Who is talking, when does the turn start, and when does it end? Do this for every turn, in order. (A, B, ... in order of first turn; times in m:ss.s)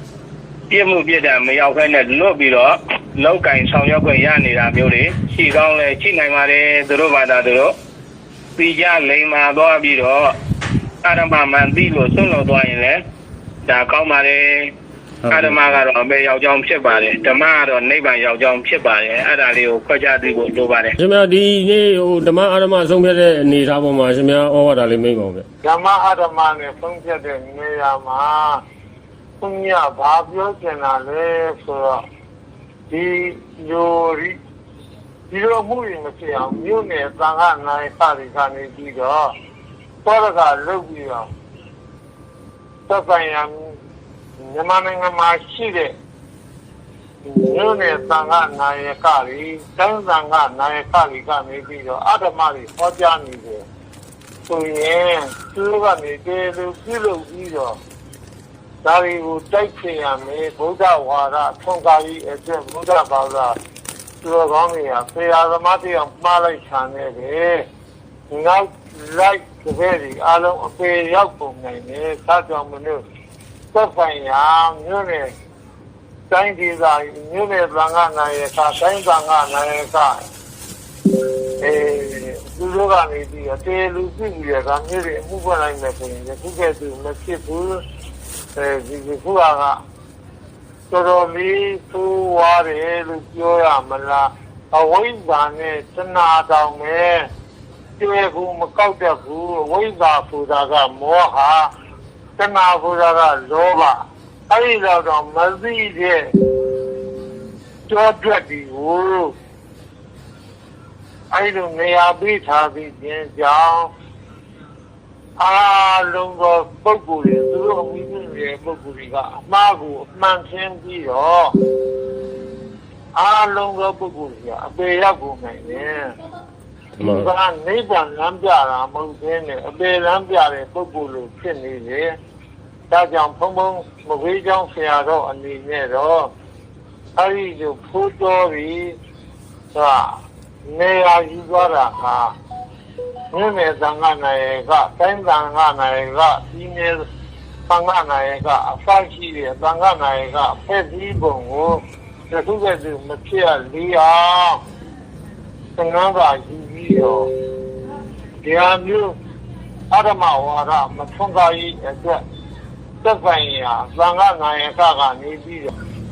0:00.7-0:07.7 A
0:08.6-0:10.3 A
0:11.0-0:13.0 A
0:13.6-0:14.7 A
0:15.2-0:15.8 B
0:15.3-0:20.9 A
0:21.0-0:25.4 B
0:25.6-0:28.6 C
0:29.4-0:32.0 C
0:32.9-0:34.4 C
0:35.3-0:39.3 C
0:40.0-0:41.3 C
0:42.9-0:43.7 C
0:44.4-0:45.9 C
0:47.2-0:53.6 C
0:54.5-0:57.8 C
0:58.8-1:03.5 C
1:04.2-1:07.6 C
1:08.3-1:13.0 C
1:13.7-1:15.3 C
1:16.3-1:20.1 C
1:21.6-1:27.8 C
1:28.6-1:29.8 C
1:30.9-1:37.2 C
1:38.0-1:41.7 C
1:42.4-1:46.2 C
1:47.9-1:49.3 C
1:51.3-1:53.9 C
1:55.4-2:01.5 C
2:03.2-2:06.1 C
2:07.0-2:07.3 B
2:07.0-2:12.1 C
2:12.9-2:16.3 C
2:17.2-2:18.9 C
2:19.7-2:22.3 C
2:23.3-2:27.0 C
2:27.7-2:34.6 C
2:35.8-2:37.3 C
2:38.4-2:39.1 C
2:39.9-2:42.2 C
2:43.0-2:45.7 C